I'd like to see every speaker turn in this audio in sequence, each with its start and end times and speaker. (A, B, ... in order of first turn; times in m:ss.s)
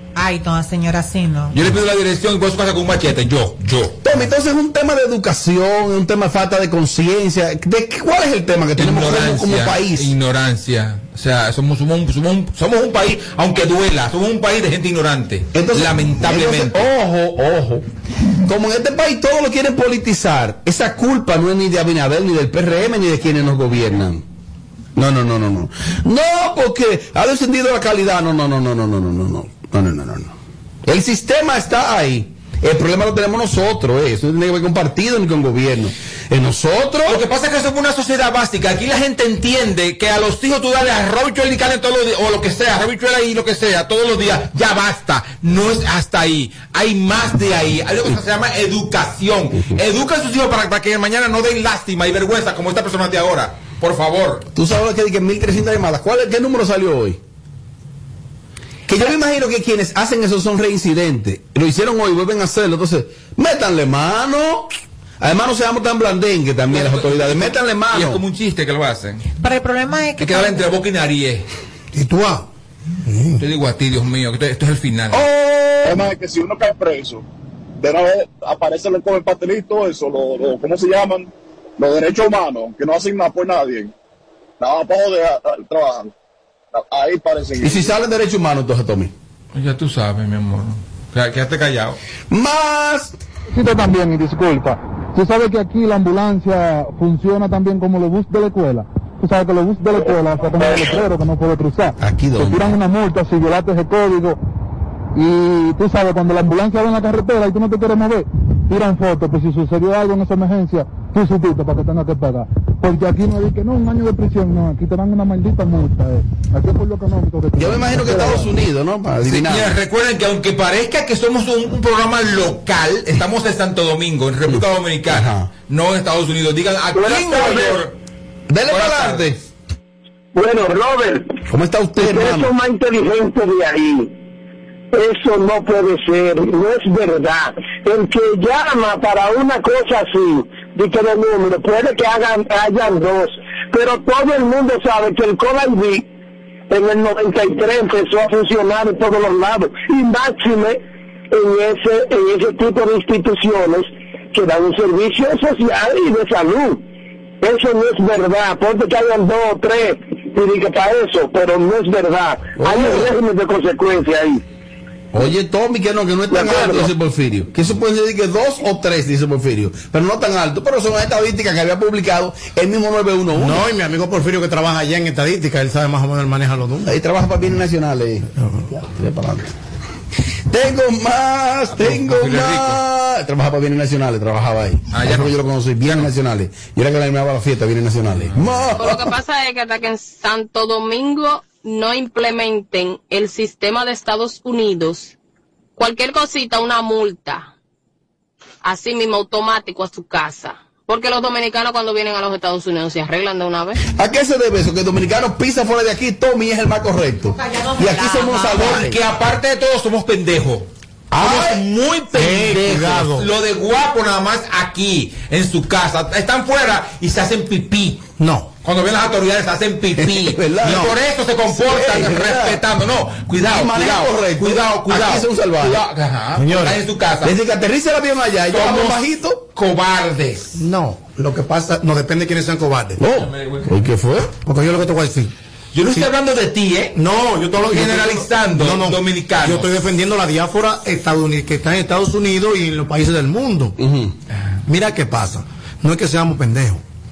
0:00.1-0:01.6 A
0:01.5-0:03.9 B
0:04.0-0:10.1 C
0:08.8-0:16.9 B
0:15.5-0:17.8 C
0:18.5-0:24.2 C
0:25.0-0:30.3 C
0:30.8-0:37.2 C
0:37.1-0:54.4 B
0:54.5-0:57.2 C
0:58.9-1:08.2 C
1:06.7-1:09.2 B
1:09.4-1:10.6 A
1:10.2-1:11.4 B
1:11.9-1:12.5 D
1:13.0-1:13.4 D
1:13.4-1:15.2 B
1:15.1-1:16.0 C
1:15.8-1:17.2 E
1:17.8-1:23.9 E
1:24.6-1:26.1 E
1:26.7-1:27.9 E
1:27.6-1:29.1 C
1:29.5-1:32.0 B
1:32.3-1:33.2 C
1:33.5-1:44.4 F
1:42.0-1:42.8 C
1:45.1-1:58.5 F
1:57.6-1:59.7 C
1:59.2-2:08.0 B
2:04.5-2:05.5 C
2:06.9-2:07.8 G
2:08.5-2:09.4 C
2:08.7-2:09.3 B
2:10.3-2:11.3 G
2:11.5-2:12.5 C
2:12.0-2:14.1 G
2:14.9-2:26.0 G
2:26.7-2:30.8 G
2:31.3-2:36.8 G
2:37.4-2:44.4 G
2:42.6-2:43.1 C
2:45.1-2:53.6 C
2:46.3-2:46.9 G
2:53.3-2:56.9 D
2:56.8-2:59.5 C
2:58.4-2:58.7 D
3:00.5-3:09.1 C
3:01.7-3:02.8 B
3:04.9-3:06.1 B
3:08.1-3:08.6 B
3:08.8-3:15.1 H
3:15.8-3:17.5 H
3:18.6-3:23.8 H
3:24.0-3:29.0 C
3:27.3-3:28.6 A
3:28.5-3:38.0 B
3:31.1-3:31.6 C
3:32.1-3:33.3 D
3:38.2-3:38.5 D
3:38.6-3:47.4 B
3:40.0-3:40.9 C
3:41.5-3:42.6 C
3:43.4-3:45.8 C
3:46.4-3:46.8 D
3:47.2-3:49.4 C
3:48.5-3:50.6 B
3:50.6-3:53.0 D
3:53.0-3:54.3 C
3:53.1-3:53.8 B
3:54.4-3:55.3 D
3:55.7-3:56.9 B
3:56.9-4:03.7 D
3:57.6-3:59.9 B
4:03.8-4:04.1 C
4:04.7-4:06.8 D